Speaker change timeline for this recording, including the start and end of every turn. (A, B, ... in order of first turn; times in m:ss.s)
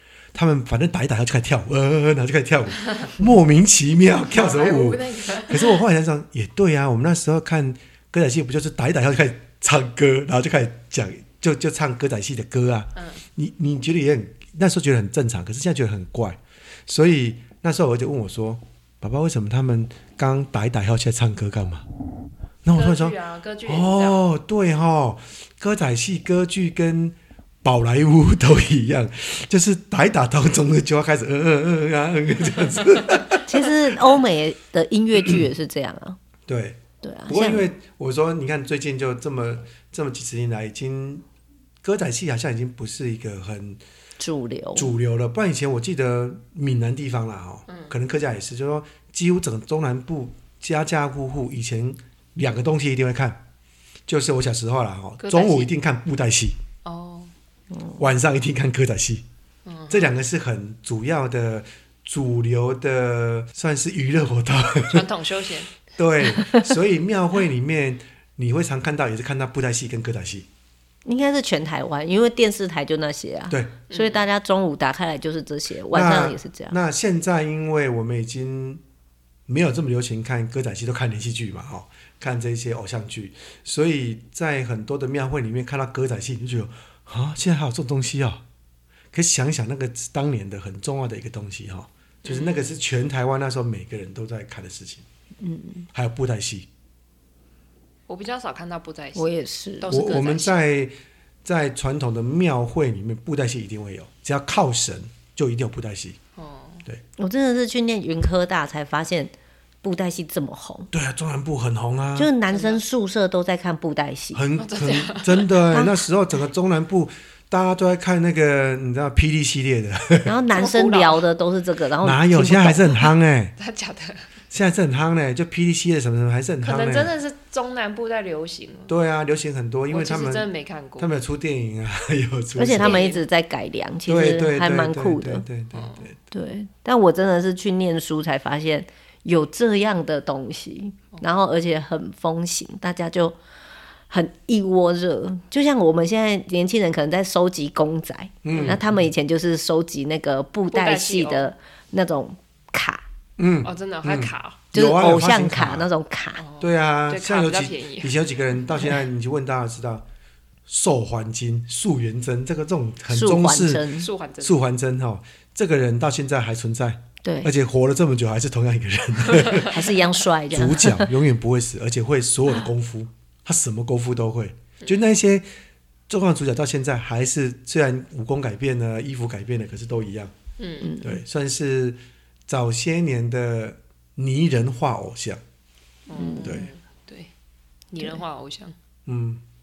0:00.3-0:21.9 A
0:04.3-0:05.8 B
0:13.0-0:13.2 B
0:22.6-0:33.4 A
0:22.7-0:24.3 B
0:33.5-0:36.2 C
0:36.5-0:41.2 A
0:37.0-0:37.7 C
0:41.8-0:43.8 A
0:44.2-0:44.9 C
0:44.8-0:53.4 A
0:47.7-0:48.0 B
0:54.1-0:56.6 A
0:55.2-0:55.7 B
0:56.8-0:57.3 B
0:57.7-0:58.0 C
0:58.0-0:59.2 A
0:59.7-1:00.2 B
0:59.9-1:05.1 A
1:04.9-1:05.8 B
1:05.9-1:10.5 A
1:11.1-1:16.8 C
1:13.5-1:13.8 A
1:13.9-1:14.2 B
1:15.9-1:18.8 A
1:19.5-1:28.4 A
1:29.1-1:35.0 A
1:32.2-1:32.8 B
1:35.4-1:35.9 C
1:35.9-1:36.7 A
1:38.1-1:40.6 B
1:39.2-1:39.9 C
1:39.9-1:46.2 A
1:46.4-1:46.9 B
1:47.2-1:50.9 C
1:50.9-1:52.3 A
1:52.2-1:54.4 C
1:52.5-1:52.8 B
1:54.3-2:00.4 A
1:54.6-1:55.5 B
1:55.7-1:56.0 C
2:00.2-2:03.0 C
2:00.5-2:01.3 B
2:02.0-2:03.5 A
2:03.6-2:04.3 B
2:04.5-2:07.1 A
2:06.6-2:08.9 B
2:08.9-2:10.5 A
2:09.9-2:11.1 B
2:11.0-2:13.1 A
2:12.6-2:15.4 C
2:12.8-2:13.2 B
2:14.1-2:16.2 A
2:15.7-2:16.1 B
2:16.3-2:23.4 C
2:24.1-2:33.0 C
2:28.4-2:29.0 A
2:28.5-2:28.8 B
2:30.7-2:31.5 B
2:33.4-2:35.9 A
2:33.6-2:34.6 B
2:34.7-2:36.4 C
2:36.4-2:38.2 B
2:36.6-2:40.1 A
2:40.7-2:49.8 A
2:43.1-2:44.1 C
2:44.0-2:44.6 B
2:47.2-2:47.5 C
2:49.7-2:51.1 C
2:50.5-2:55.5 A
2:56.1-3:00.3 A
3:00.6-3:01.0 B
3:00.8-3:01.2 C
3:01.0-3:05.4 A
3:06.1-3:07.3 B
3:06.2-3:06.6 C
3:06.4-3:06.7 A
3:07.9-3:08.8 B
3:09.1-3:09.4 A